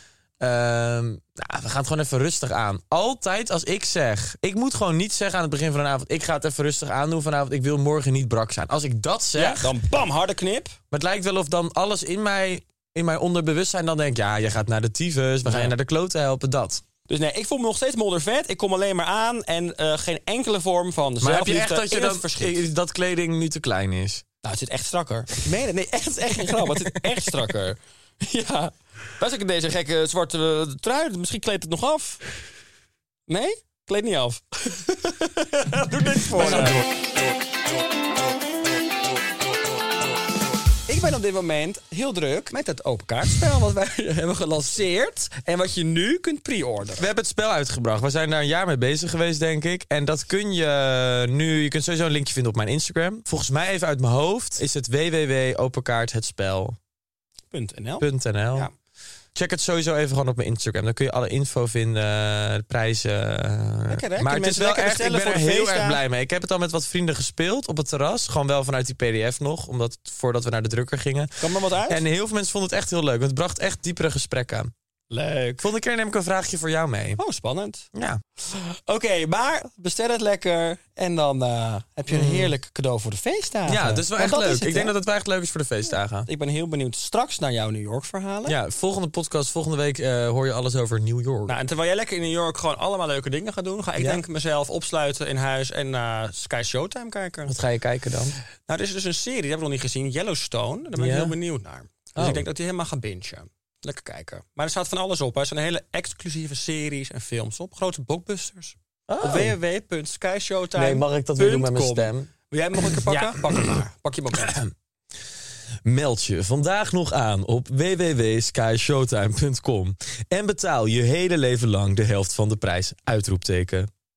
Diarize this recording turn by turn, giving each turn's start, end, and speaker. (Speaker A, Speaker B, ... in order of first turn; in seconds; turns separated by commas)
Speaker A: 0.4-9.7, Speaker B: 9.3-10.8, Speaker A: 10.9-16.8, Speaker B: 15.4-15.7, Speaker B: 17.1-22.6, Speaker A: 21.2-24.2, Speaker B: 24.4-32.2, Speaker B: 33.3-36.8, Speaker B: 40.9-47.0, Speaker A: 47.0-56.8, Speaker B: 57.5-58.7, Speaker A: 58.0-58.7, Speaker A: 59.4-74.7, Speaker B: 63.9-66.0, Speaker B: 71.4-72.0, Speaker B: 75.1-75.7, Speaker A: 75.6-77.2, Speaker B: 77.2-77.8, Speaker A: 77.9-78.2, Speaker B: 78.4-84.9, Speaker A: 82.1-82.5, Speaker A: 83.7-86.3, Speaker B: 86.2-88.5, Speaker A: 88.5-91.5, Speaker B: 91.5-97.5, Speaker A: 97.5-98.4, Speaker B: 98.7-114.6, Speaker A: 101.0-101.3, Speaker A: 102.2-102.4, Speaker A: 109.1-109.5, Speaker A: 110.8-112.3, Speaker A: 113.0-113.8, Speaker A: 114.4-114.7, Speaker A: 115.8-123.9